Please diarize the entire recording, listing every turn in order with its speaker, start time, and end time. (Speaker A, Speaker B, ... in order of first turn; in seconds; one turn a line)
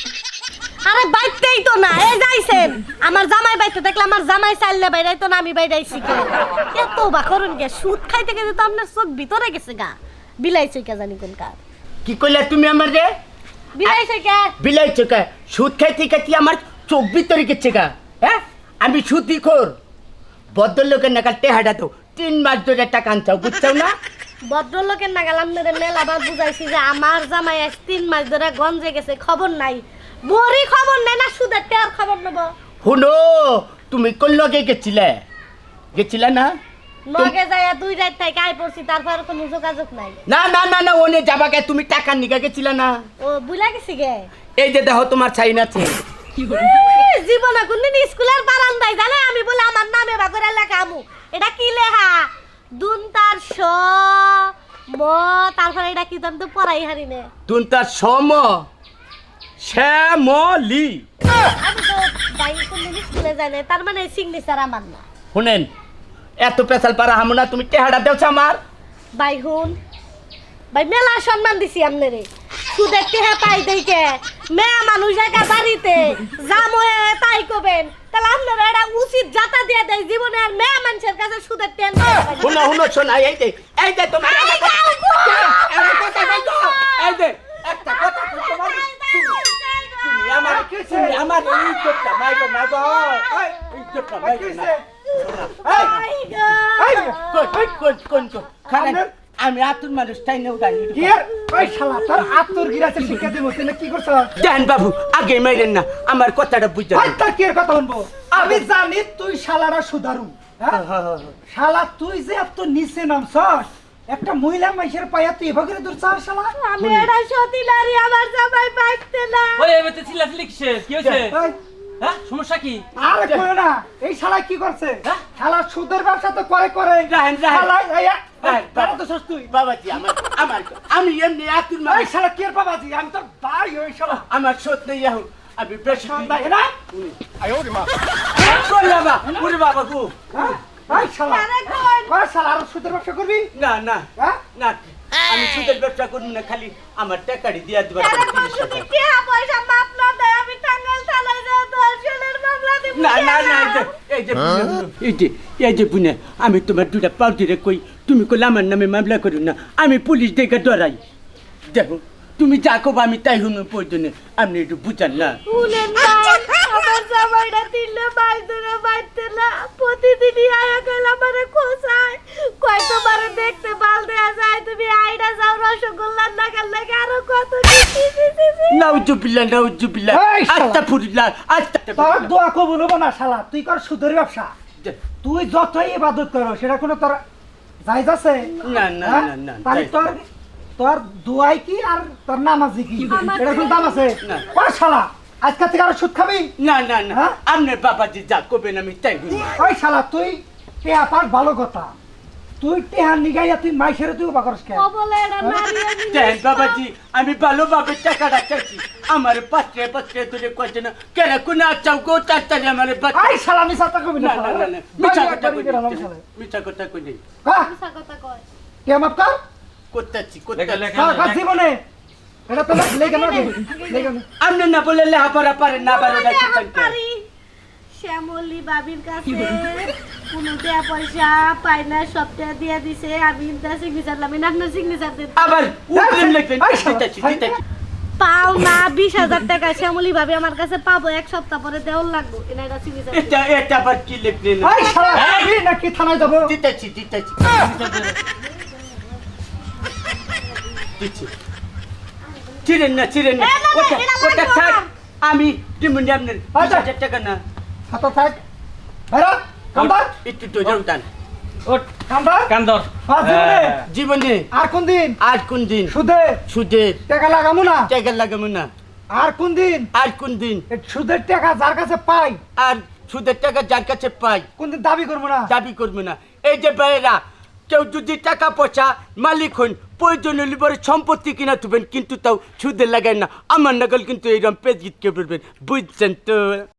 Speaker A: 0.8-11.6
Speaker B: 12.0-13.1
Speaker A: 13.7-14.5
Speaker B: 14.6-19.8
Speaker B: 20.5-23.9
Speaker A: 24.5-32.5
Speaker B: 32.8-35.2
Speaker B: 35.9-36.6
Speaker A: 37.1-40.2
Speaker B: 40.3-43.0
Speaker A: 43.2-44.3
Speaker B: 44.6-46.0
Speaker A: 46.4-57.3
Speaker B: 57.5-58.6
Speaker B: 59.6-61.0
Speaker A: 61.5-65.0
Speaker B: 65.3-65.7
Speaker B: 66.4-68.6
Speaker A: 69.2-69.8
Speaker A: 70.7-82.8
Speaker B: 82.4-89.4
Speaker A: 84.2-87.2
Speaker A: 87.7-93.5
Speaker B: 90.0-96.5
Speaker C: 90.4-91.2
Speaker C: 93.3-93.5
Speaker C: 94.2-94.8
Speaker A: 95.5-97.9
Speaker C: 96.8-97.2
Speaker B: 97.2-101.2
Speaker C: 98.7-99.1
Speaker C: 100.9-104.3
Speaker B: 104.4-107.2
Speaker C: 106.9-110.8
Speaker B: 108.3-108.6
Speaker B: 110.7-111.3
Speaker C: 111.5-116.5
Speaker A: 116.5-119.7
Speaker B: 116.8-117.1
Speaker D: 119.6-121.3
Speaker B: 121.0-121.3
Speaker C: 121.2-121.6
Speaker D: 122.0-122.8
Speaker C: 123.0-129.5
Speaker B: 123.2-123.5
Speaker B: 127.0-127.7
Speaker B: 128.4-132.1
Speaker C: 131.9-134.2
Speaker B: 134.3-137.2
Speaker C: 135.9-136.7
Speaker B: 138.3-140.5
Speaker C: 140.3-141.4
Speaker A: 141.1-142.1
Speaker C: 142.1-143.5
Speaker B: 143.5-148.9
Speaker A: 148.0-153.9
Speaker B: 152.9-161.0
Speaker B: 161.7-165.4
Speaker A: 165.5-179.0
Speaker B: 178.7-182.3
Speaker C: 180.1-180.8
Speaker C: 181.9-184.5
Speaker C: 185.2-187.2
Speaker C: 187.8-190.2
Speaker B: 188.6-190.1
Speaker C: 190.8-196.5
Speaker A: 193.0-194.2
Speaker B: 194.2-194.5
Speaker B: 196.6-199.6
Speaker C: 197.1-197.4
Speaker C: 199.6-201.9
Speaker C: 202.6-204.8
Speaker A: 204.7-206.8
Speaker B: 206.1-213.4
Speaker C: 213.1-216.2
Speaker B: 214.2-217.2
Speaker C: 217.4-217.7
Speaker A: 217.6-218.4
Speaker C: 218.8-219.3
Speaker B: 219.9-221.2
Speaker D: 220.5-221.4
Speaker C: 220.9-221.8
Speaker C: 222.5-224.2
Speaker A: 223.0-224.1
Speaker B: 224.4-226.9
Speaker A: 225.7-227.2
Speaker A: 227.9-235.5
Speaker B: 235.3-237.6
Speaker C: 235.9-237.5
Speaker A: 238.2-243.4
Speaker B: 243.1-245.5
Speaker C: 244.6-246.5
Speaker B: 246.2-247.7
Speaker D: 247.6-248.2
Speaker B: 251.0-251.3
Speaker B: 252.6-257.4
Speaker A: 253.4-254.9
Speaker C: 256.5-256.9
Speaker C: 257.9-258.4
Speaker C: 259.1-260.1
Speaker B: 259.8-261.1
Speaker C: 262.1-263.8
Speaker D: 262.5-263.8
Speaker B: 263.9-264.5
Speaker C: 264.5-265.2
Speaker B: 265.2-265.9
Speaker C: 265.9-266.4
Speaker B: 266.5-267.0
Speaker C: 267.1-267.9
Speaker B: 267.9-268.7
Speaker C: 269.1-269.9
Speaker B: 269.9-270.6
Speaker C: 270.7-272.4
Speaker B: 272.6-274.4
Speaker C: 274.6-275.5
Speaker B: 275.5-286.7